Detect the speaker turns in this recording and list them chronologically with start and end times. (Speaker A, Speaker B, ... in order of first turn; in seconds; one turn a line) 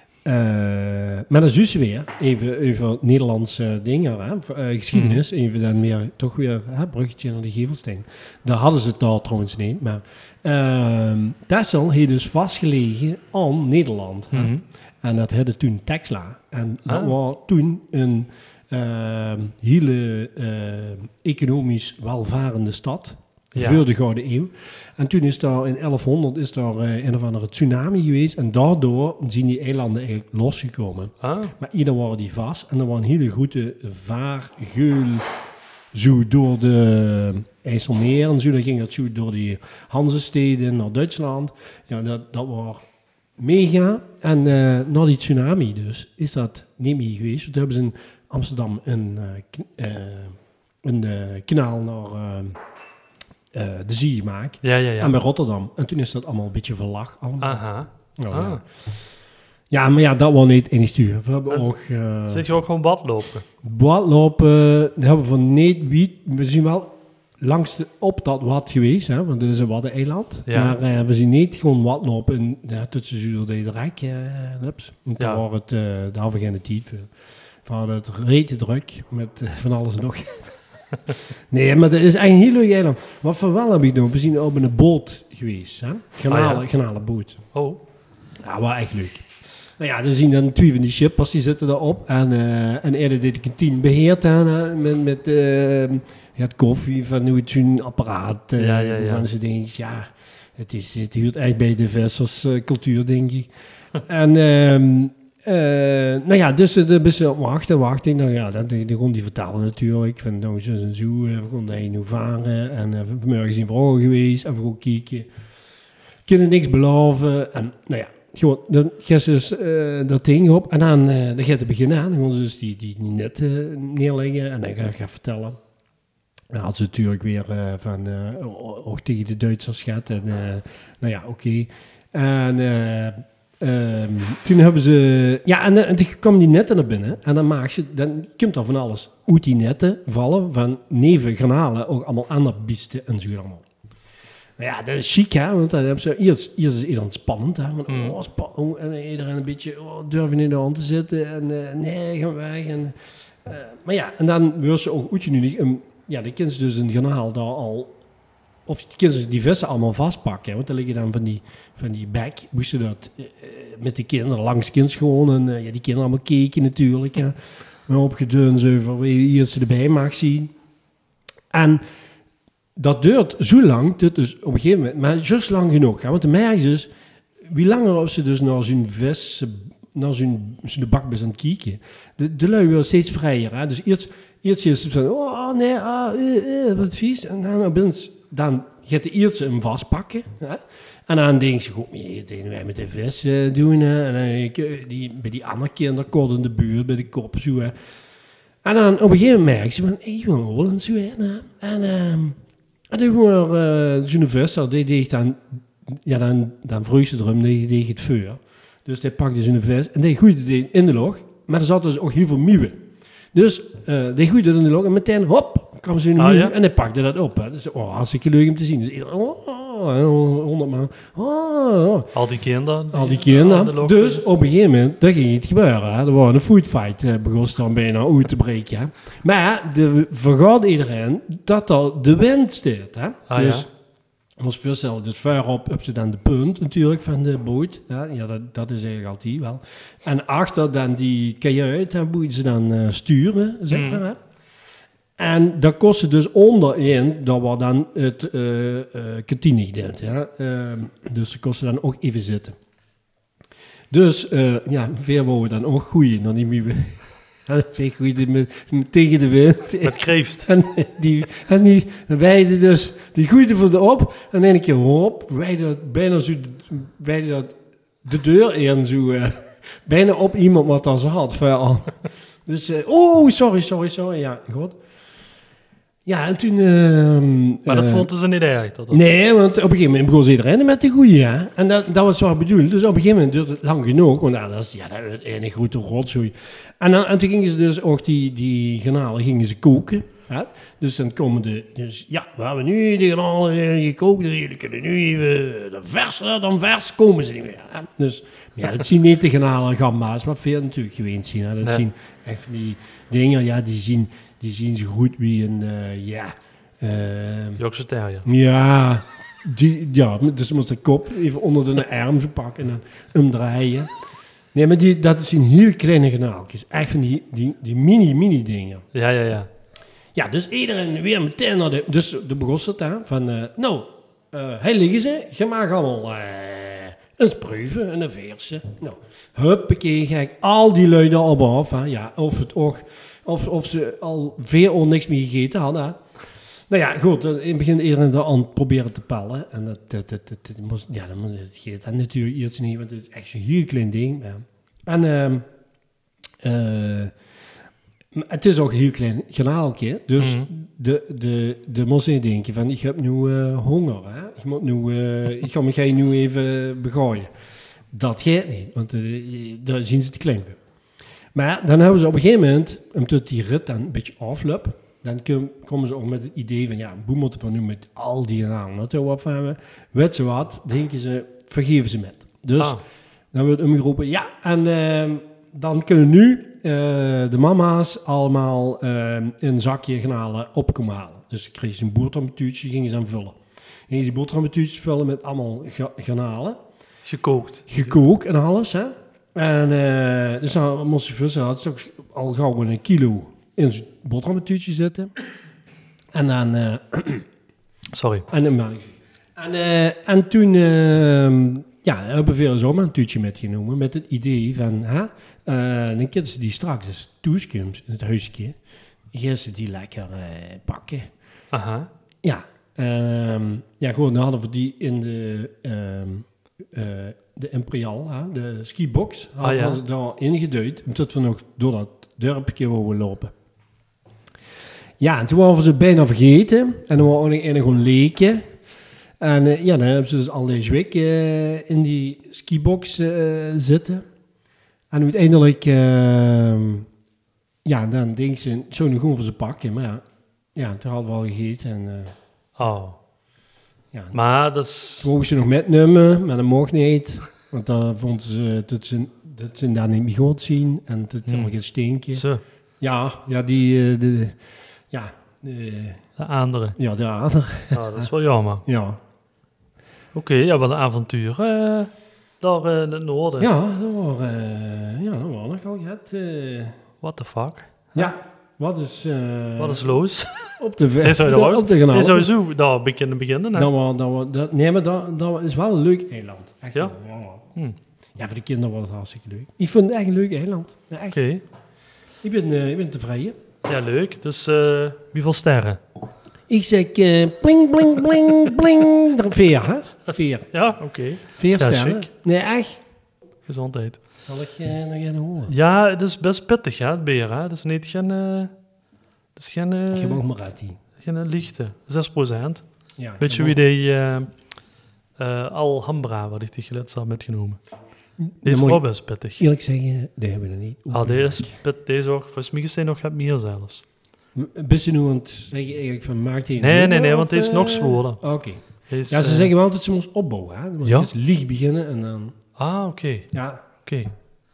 Speaker A: 0.2-35.3
Speaker B: 4.9-5.2
Speaker B: 14.3-14.6
Speaker B: 16.9-17.1
Speaker B: 23.6-23.9
Speaker B: 31.2-31.6
Speaker A: 35.9-42.9
Speaker A: 43.4-52.6
Speaker A: 53.5-57.6
Speaker B: 54.6-55.2
Speaker B: 57.4-58.6
Speaker A: 58.2-58.6
Speaker A: 59.7-62.5
Speaker B: 62.3-63.5
Speaker A: 63.6-77.1
Speaker B: 70.5-70.8
Speaker A: 77.7-80.5
Speaker A: 81.5-87.4
Speaker B: 86.3-86.7
Speaker B: 87.5-87.8
Speaker A: 88.4-115.3
Speaker B: 98.6-99.3
Speaker A: 116.3-125.6
Speaker A: 126.5-143.7
Speaker A: 144.6-157.9
Speaker B: 147.9-148.2
Speaker A: 158.7-170.5
Speaker A: 171.5-171.8
Speaker A: 172.8-176.9
Speaker A: 177.4-197.7
Speaker A: 198.6-202.4
Speaker A: 202.9-222.1
Speaker B: 216.2-216.6
Speaker B: 222.1-224.2
Speaker A: 222.9-233.7
Speaker B: 233.3-233.7
Speaker A: 234.4-244.2
Speaker B: 243.7-244.0
Speaker A: 245.2-252.6
Speaker A: 253.9-274.8
Speaker B: 259.8-260.5
Speaker A: 276.1-278.1
Speaker B: 277.7-279.0
Speaker A: 278.9-307.6
Speaker B: 307.6-308.3
Speaker A: 308.2-313.9
Speaker A: 314.5-318.9
Speaker B: 318.9-319.5
Speaker A: 320.1-336.0
Speaker A: 336.7-345.5
Speaker A: 346.4-347.1
Speaker A: 348.1-357.3
Speaker B: 350.2-350.5
Speaker A: 357.9-360.6
Speaker A: 361.4-372.8
Speaker A: 373.3-386.6
Speaker B: 387.1-388.0
Speaker A: 387.7-395.1
Speaker A: 396.1-397.3
Speaker B: 397.9-398.3
Speaker A: 398.3-408.6
Speaker A: 409.1-411.1
Speaker B: 411.5-411.9
Speaker A: 412.2-423.3
Speaker B: 419.4-419.8
Speaker A: 425.0-428.5
Speaker A: 429.2-434.1
Speaker A: 434.9-436.9
Speaker A: 437.6-440.0
Speaker A: 440.6-442.1
Speaker B: 442.6-443.0
Speaker A: 443.9-444.2
Speaker B: 444.1-445.1
Speaker A: 445.0-452.2
Speaker B: 451.3-451.5
Speaker B: 452.1-452.4
Speaker A: 452.8-454.4
Speaker A: 454.9-456.1
Speaker B: 456.2-456.8
Speaker A: 456.8-458.1
Speaker B: 457.7-458.6
Speaker A: 458.6-459.0
Speaker B: 460.1-463.5
Speaker A: 463.4-466.8
Speaker B: 467.0-468.1
Speaker A: 467.9-470.0
Speaker B: 469.6-473.7
Speaker A: 470.6-472.3
Speaker A: 473.5-477.4
Speaker A: 478.2-481.2
Speaker B: 481.1-481.4
Speaker A: 482.2-483.4
Speaker B: 483.7-485.8
Speaker A: 486.5-490.5
Speaker B: 490.1-492.1
Speaker A: 491.4-492.8
Speaker B: 493.5-494.0
Speaker A: 494.3-495.5
Speaker B: 495.5-498.5
Speaker B: 499.4-500.2
Speaker A: 499.9-500.8
Speaker B: 501.0-502.6
Speaker A: 503.0-503.6
Speaker B: 503.2-504.3
Speaker B: 505.2-507.6
Speaker A: 508.2-511.5
Speaker B: 508.4-509.4
Speaker B: 510.9-513.9
Speaker A: 514.4-522.4
Speaker B: 516.6-518.2
Speaker B: 518.9-519.5
Speaker B: 520.8-521.1
Speaker B: 522.6-524.1
Speaker A: 523.3-523.6